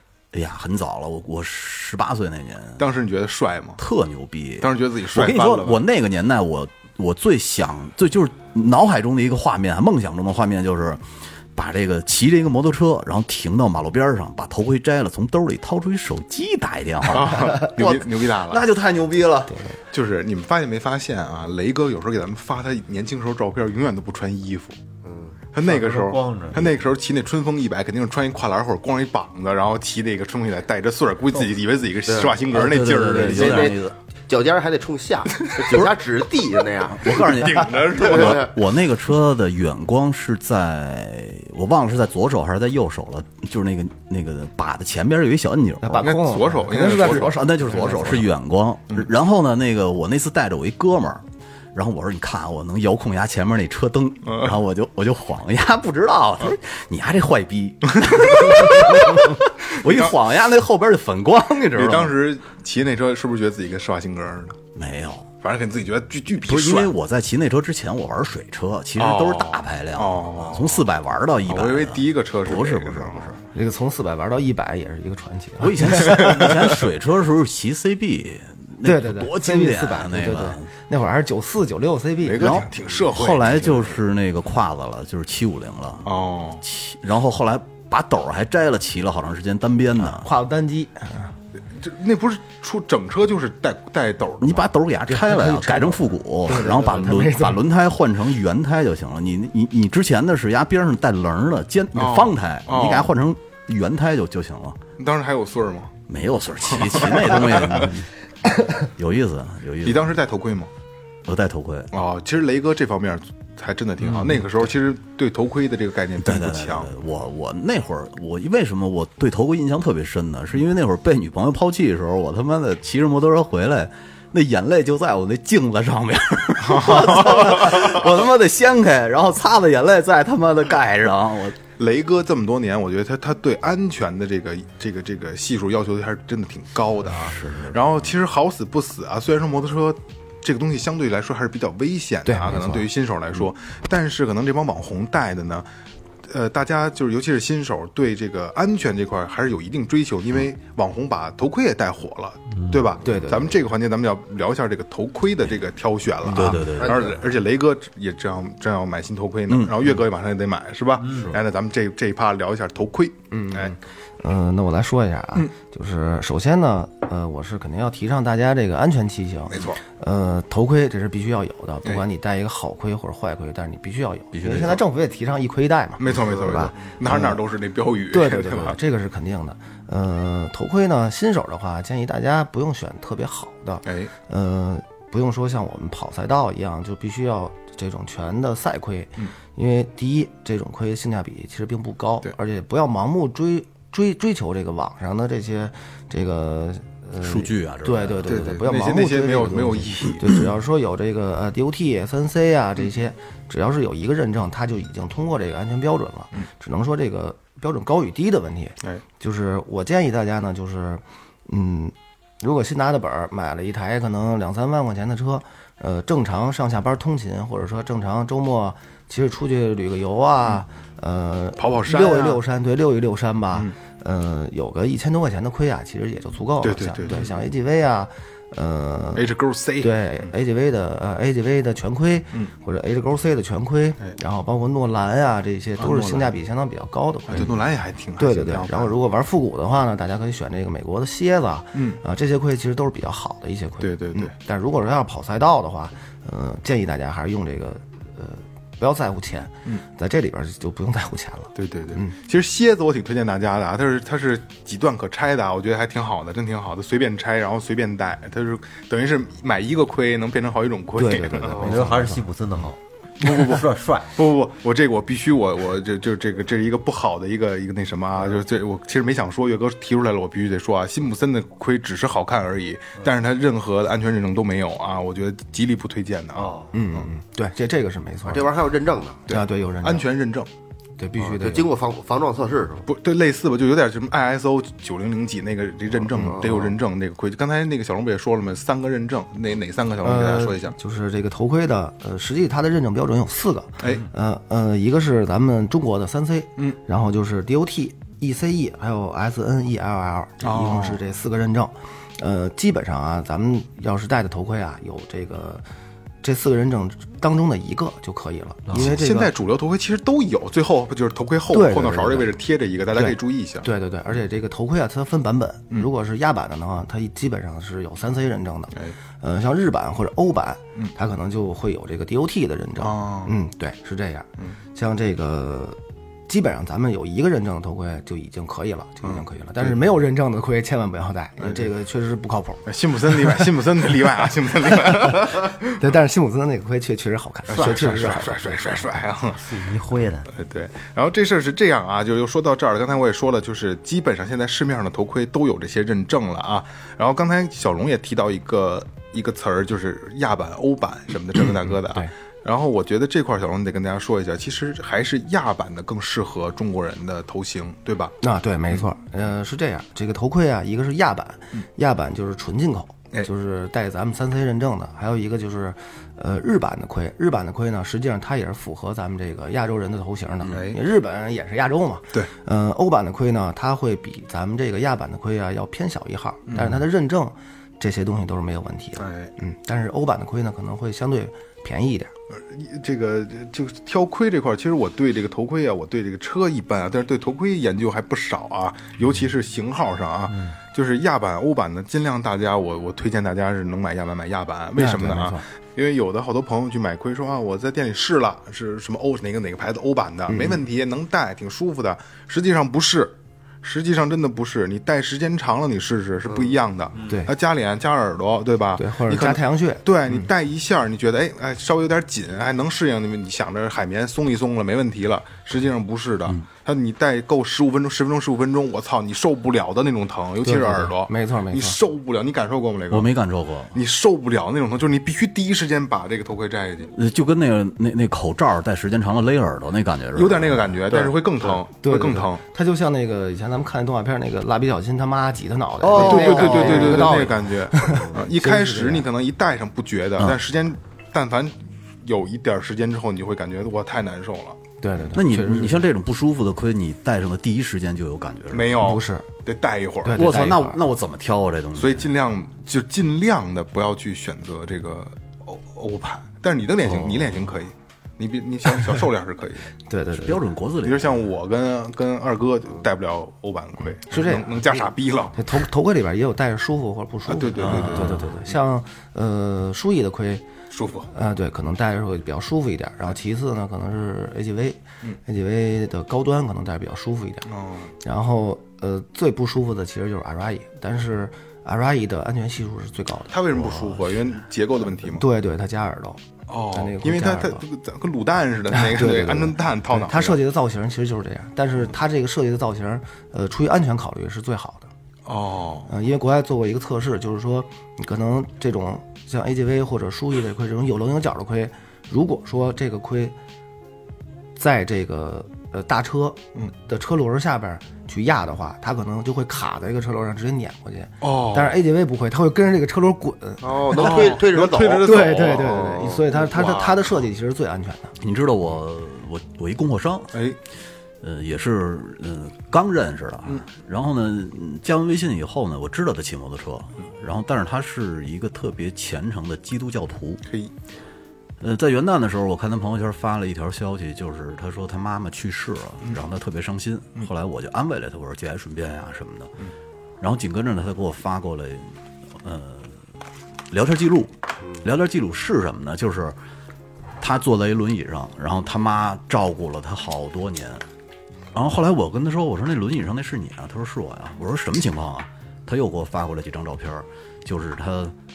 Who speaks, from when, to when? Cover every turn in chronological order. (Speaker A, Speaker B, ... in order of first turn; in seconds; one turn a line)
Speaker A: 0.3-2.8
Speaker B: 2.8-3.8
Speaker A: 3.8-11.0
Speaker B: 4.6-5.8
Speaker A: 11.5-19.6
Speaker B: 17.1-18.6
Speaker C: 19.5-19.8
Speaker B: 19.9-24.8
Speaker D: 25.0-25.3
Speaker B: 25.5-33.7
Speaker E: 25.6-26.8
Speaker D: 32.1-32.4
Speaker A: 32.5-33.9
Speaker D: 33.3-37.3
Speaker A: 36.9-46.2
Speaker B: 37.3-38.5
Speaker D: 38.0-38.5
Speaker C: 45.8-48.2
Speaker B: 46.0-48.2
Speaker A: 46.8-62.1
Speaker B: 54.2-54.5
Speaker B: 58.0-59.2
Speaker B: 59.8-60.1
Speaker B: 61.7-64.6
Speaker A: 64.7-65.3
Speaker B: 65.4-66.9
Speaker A: 66.4-73.4
Speaker B: 69.0-70.8
Speaker B: 71.5-73.3
Speaker C: 73.5-76.5
Speaker A: 75.6-80.6
Speaker B: 76.1-76.5
Speaker C: 78.8-82.6
Speaker B: 82.2-84.0
Speaker A: 82.4-90.3
Speaker B: 86.0-86.6
Speaker C: 90.0-91.3
Speaker B: 91.7-94.7
Speaker A: 94.4-104.8
Speaker C: 95.1-97.6
Speaker B: 101.9-103.1
Speaker B: 105.0-105.9
Speaker A: 106.1-108.1
Speaker B: 106.7-107.9
Speaker A: 108.7-110.2
Speaker B: 109.8-110.7
Speaker A: 111.2-111.9
Speaker B: 111.9-116.9
Speaker A: 114.0-114.5
Speaker A: 116.2-131.6
Speaker B: 126.6-128.0
Speaker B: 131.8-145.7
Speaker A: 137.0-138.1
Speaker C: 142.2-142.9
Speaker B: 146.3-163.7
Speaker C: 153.0-153.5
Speaker A: 156.2-157.1
Speaker D: 156.8-157.1
Speaker A: 159.5-160.0
Speaker C: 163.3-177.4
Speaker B: 169.5-169.8
Speaker A: 174.3-174.8
Speaker B: 176.0-178.8
Speaker C: 178.1-237.6
Speaker B: 183.8-184.1
Speaker A: 197.2-198.5
Speaker B: 198.3-200.4
Speaker B: 221.6-222.4
Speaker B: 226.6-227.4
Speaker B: 229.1-230.3
Speaker B: 235.8-236.3
Speaker B: 237.3-238.9
Speaker C: 238.2-252.1
Speaker B: 241.7-242.0
Speaker B: 243.8-244.3
Speaker B: 251.5-261.8
Speaker C: 260.9-262.2
Speaker E: 261.5-264.2
Speaker B: 263.2-276.7
Speaker C: 276.7-278.5
Speaker D: 278.3-279.3
Speaker B: 279.3-280.5
Speaker C: 279.3-280.1
Speaker C: 281.0-281.7
Speaker D: 281.3-282.9
Speaker B: 282.9-290.7
Speaker D: 286.2-286.7
Speaker C: 290.0-305.6
Speaker B: 293.8-294.1
Speaker B: 300.4-301.0
Speaker C: 306.2-309.3
Speaker B: 308.7-313.6
Speaker C: 311.5-312.3
Speaker C: 312.9-332.6
Speaker B: 322.8-323.3
Speaker B: 329.0-329.8
Speaker B: 331.4-331.7
Speaker B: 332.6-335.5
Speaker C: 335.8-338.6
Speaker B: 337.5-339.4
Speaker E: 339.3-340.3
Speaker B: 340.3-358.1
Speaker C: 358.2-382.1
Speaker B: 370.5-370.8
Speaker B: 376.5-376.8
Speaker B: 379.0-379.3
Speaker B: 382.3-423.1
Speaker C: 394.8-395.4
Speaker C: 400.3-400.6
Speaker C: 407.1-407.3
Speaker C: 408.8-410.3
Speaker C: 420.4-421.8
Speaker A: 422.9-423.8
Speaker B: 423.7-426.9
Speaker A: 426.9-431.1
Speaker B: 430.1-432.4
Speaker C: 431.4-439.1
Speaker B: 435.9-444.6
Speaker C: 444.8-445.8
Speaker A: 445.1-448.9
Speaker B: 448.5-450.5
Speaker C: 448.8-449.3
Speaker C: 450.0-450.8
Speaker A: 450.1-452.1
Speaker B: 451.8-459.7
Speaker A: 456.9-457.4
Speaker C: 459.9-460.4
Speaker A: 460.1-461.2
Speaker B: 460.8-465.4
Speaker C: 464.1-464.5
Speaker C: 465.4-470.4
Speaker B: 467.3-468.4
Speaker A: 467.6-468.3
Speaker B: 470.7-471.1
Speaker C: 471.1-477.5
Speaker B: 477.5-477.9
Speaker C: 478.0-484.2
Speaker B: 483.3-485.2
Speaker C: 485.0-487.6
Speaker B: 486.5-490.4
Speaker C: 488.7-494.9
Speaker B: 495.2-495.9
Speaker C: 495.9-503.4
Speaker C: 504.6-514.4
Speaker B: 511.2-511.8
Speaker D: 513.6-516.3
Speaker B: 513.9-517.1
Speaker C: 515.0-518.1
Speaker A: 518.2-520.4
Speaker A: 521.2-530.4
Speaker B: 530.5-530.7
Speaker A: 531.6-539.5
Speaker A: 540.2-543.0
Speaker A: 543.7-546.4
Speaker A: 547.2-550.8
Speaker A: 551.5-558.1